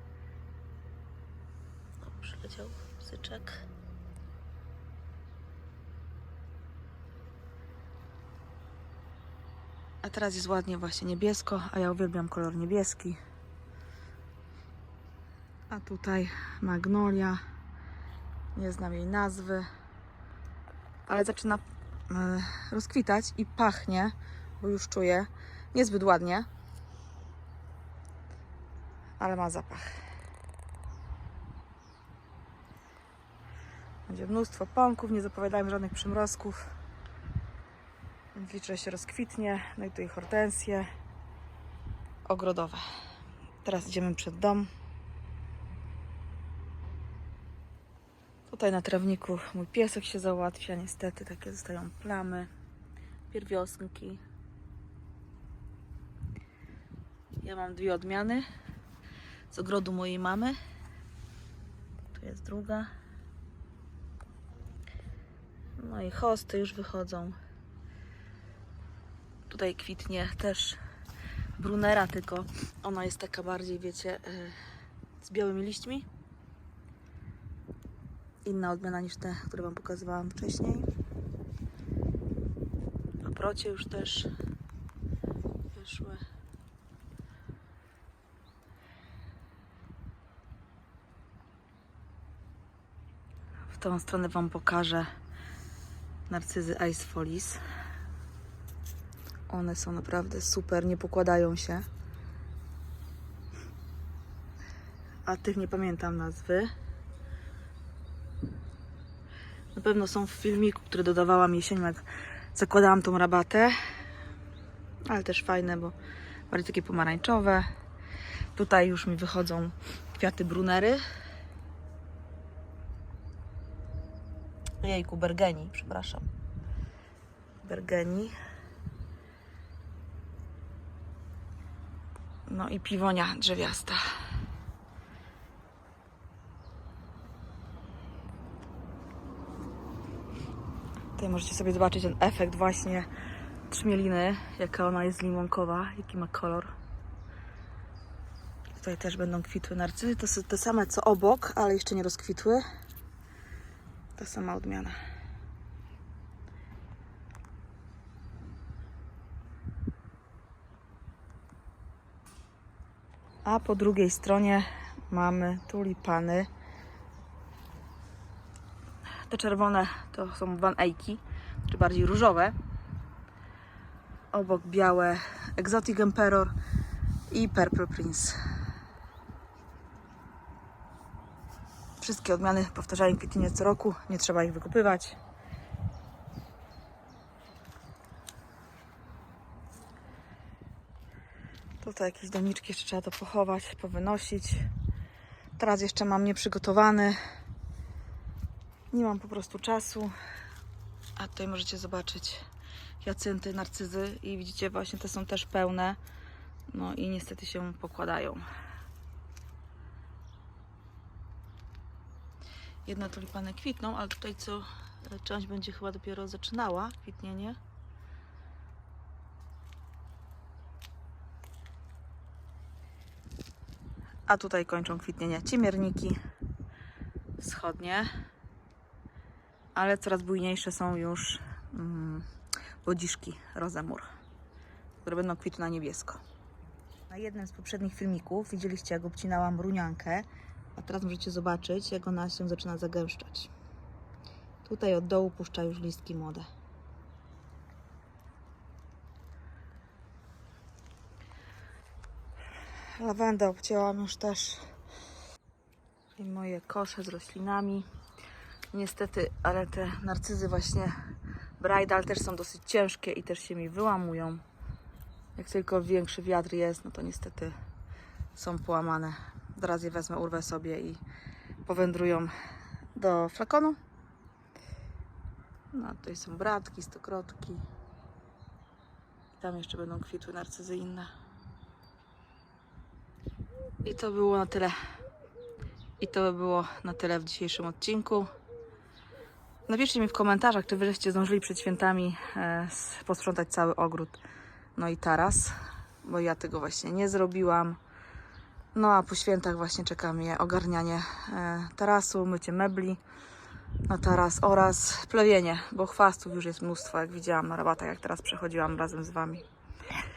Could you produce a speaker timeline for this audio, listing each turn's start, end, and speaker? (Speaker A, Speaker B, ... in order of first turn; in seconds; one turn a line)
Speaker A: 2.0-3.6
Speaker A: 10.0-13.2
Speaker A: 15.7-17.4
Speaker A: 18.5-19.7
Speaker A: 21.1-26.5
Speaker A: 29.2-29.9
Speaker A: 34.1-36.7
Speaker A: 38.3-40.9
Speaker A: 42.2-42.8
Speaker A: 43.6-44.7
Speaker A: 48.5-52.5
Speaker A: 53.3-54.2
Speaker A: 57.4-58.5
Speaker A: 59.5-60.6
Speaker A: 62.1-62.9
Speaker A: 65.8-67.4
Speaker A: 69.5-70.8
Speaker A: 71.6-74.6
Speaker A: 75.2-76.0
Speaker A: 78.4-80.9
Speaker A: 83.2-84.3
Speaker A: 85.7-86.2
Speaker A: 93.7-95.1
Speaker A: 96.3-97.6
Speaker A: 99.5-101.8
Speaker A: 105.2-106.7
Speaker A: 109.7-113.7
Speaker A: 115.1-115.9
Speaker A: 116.5-117.7
Speaker A: 118.5-121.0
Speaker A: 124.8-126.2
Speaker A: 127.6-128.3
Speaker A: 132.5-134.0
Speaker A: 141.2-143.1
Speaker A: 143.7-146.7
Speaker A: 148.8-152.6
Speaker A: 154.2-155.0
Speaker A: 163.4-166.5
Speaker A: 169.3-172.6
Speaker A: 174.3-176.5
Speaker A: 177.3-178.4
Speaker A: 182.0-185.2
Speaker A: 191.8-194.7
Speaker A: 195.6-197.2
Speaker A: 198.9-200.1
Speaker A: 201.2-202.4
Speaker A: 203.0-206.0
Speaker A: 206.7-208.4
Speaker A: 212.8-217.6
Speaker A: 224.3-226.2
Speaker A: 227.4-228.1
Speaker A: 229.7-232.2
Speaker A: 232.8-234.1
Speaker A: 235.0-236.2
Speaker A: 237.1-243.5
Speaker A: 244.6-246.5
Speaker A: 253.0-254.7
Speaker A: 256.1-257.9
Speaker A: 258.7-260.9
Speaker A: 261.6-264.4
Speaker A: 265.4-267.5
Speaker A: 268.3-271.0
Speaker A: 271.6-272.3
Speaker A: 272.9-273.8
Speaker A: 275.7-277.6
Speaker A: 279.3-281.1
Speaker A: 283.8-284.8
Speaker A: 286.0-288.3
Speaker A: 289.7-294.2
Speaker A: 294.8-297.8
Speaker A: 298.7-303.0
Speaker A: 303.9-309.4